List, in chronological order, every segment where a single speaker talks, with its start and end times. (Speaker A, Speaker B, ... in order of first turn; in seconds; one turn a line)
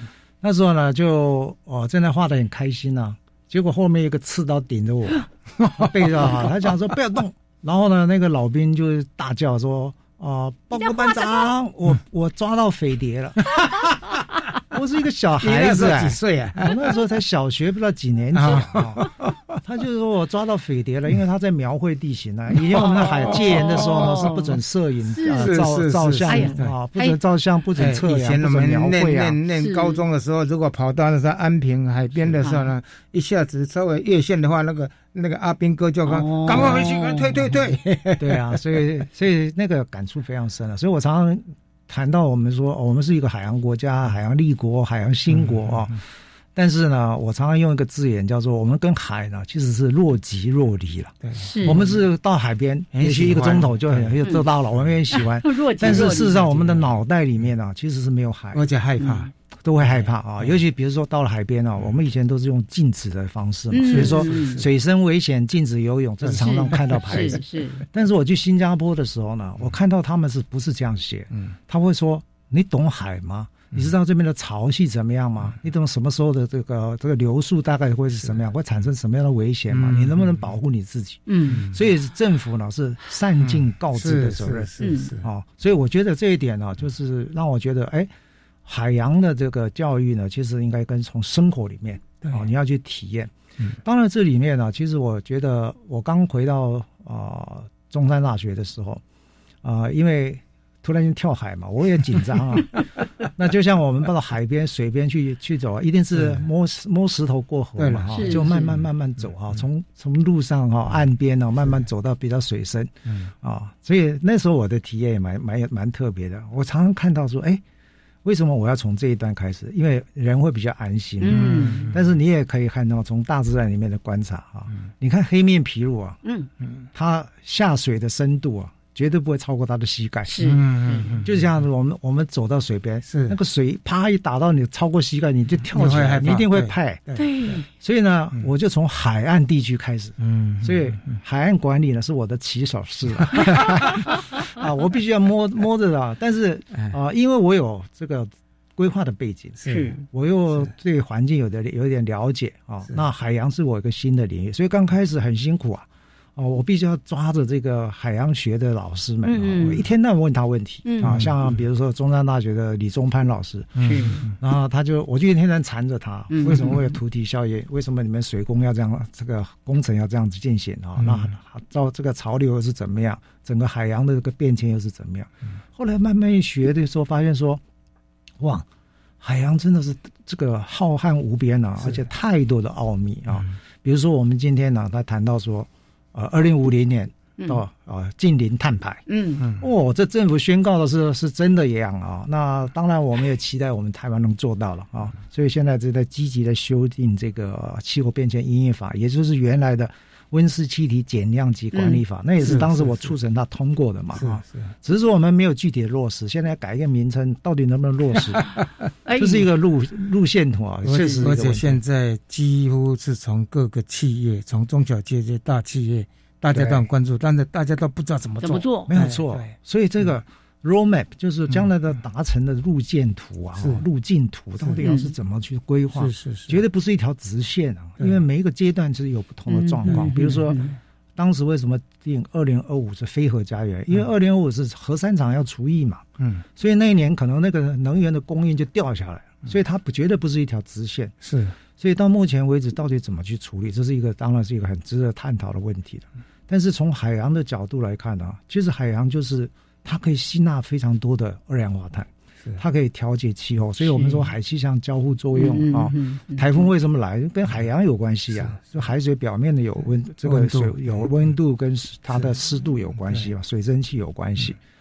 Speaker A: 0.4-13.7
Speaker A: 14.7-29.4
Speaker B: 15.4-16.8
Speaker B: 18.3-19.5
Speaker B: 22.8-24.3
Speaker C: 23.1-24.4
Speaker C: 25.1-25.6
Speaker B: 25.3-26.7
Speaker C: 26.3-27.2
Speaker B: 27.8-38.8
Speaker C: 29.6-30.0
Speaker C: 32.4-32.7
Speaker C: 36.0-37.4
Speaker A: 38.2-46.0
Speaker B: 45.3-45.9
Speaker A: 46.5-58.6
Speaker B: 51.2-52.0
Speaker C: 51.4-52.0
Speaker B: 52.9-55.0
Speaker C: 55.1-56.4
Speaker B: 55.8-57.0
Speaker B: 58.5-60.6
Speaker C: 59.0-59.3
Speaker A: 59.6-88.1
Speaker C: 63.7-64.6
Speaker B: 63.8-64.7
Speaker B: 66.2-67.4
Speaker C: 66.3-67.8
Speaker B: 79.7-80.5
Speaker C: 81.3-81.6
Speaker B: 81.5-81.8
Speaker B: 83.4-85.3
Speaker C: 84.8-85.1
Speaker A: 88.7-93.3
Speaker B: 92.2-92.5
Speaker A: 93.8-99.0
Speaker A: 99.6-117.6
Speaker B: 106.1-106.5
Speaker B: 107.8-108.8
Speaker C: 108.1-108.8
Speaker A: 118.2-126.2
Speaker C: 121.2-121.9
Speaker B: 121.3-122.1
Speaker C: 126.2-126.5
Speaker B: 126.6-126.9
Speaker A: 126.9-130.4
Speaker C: 130.3-131.1
Speaker B: 130.4-131.5
Speaker A: 131.2-137.0
Speaker B: 133.1-133.4
Speaker B: 135.7-137.3
Speaker C: 137.2-137.7
Speaker A: 137.7-177.6
Speaker B: 140.2-141.2
Speaker B: 149.6-149.9
Speaker C: 149.7-150.0
Speaker C: 159.2-159.8
Speaker C: 160.9-161.2
Speaker B: 161.0-161.6
Speaker B: 163.8-164.3
Speaker C: 163.8-164.2
Speaker C: 166.3-166.9
Speaker B: 171.0-171.3
Speaker A: 178.4-178.7
Speaker A: 179.2-208.6
Speaker C: 189.1-189.4
Speaker C: 201.7-202.6
Speaker B: 202.4-203.2
Speaker B: 204.1-204.7
Speaker C: 209.1-209.5
Speaker A: 209.2-211.8
Speaker B: 210.8-220.1
Speaker C: 210.9-211.3
Speaker A: 216.5-216.8
Speaker C: 218.4-218.9
Speaker A: 218.9-230.6
Speaker B: 223.6-223.9
Speaker B: 224.6-224.9
Speaker C: 224.8-225.1
Speaker B: 225.9-226.6
Speaker B: 228.0-228.3
Speaker C: 229.5-230.7
Speaker B: 229.9-230.4
Speaker A: 231.2-241.2
Speaker B: 236.2-236.4
Speaker B: 241.2-241.6
Speaker A: 241.8-264.6
Speaker C: 253.8-254.3
Speaker C: 255.3-256.7
Speaker B: 258.3-258.9
Speaker B: 260.2-261.1
Speaker B: 262.1-262.4
Speaker B: 263.0-263.3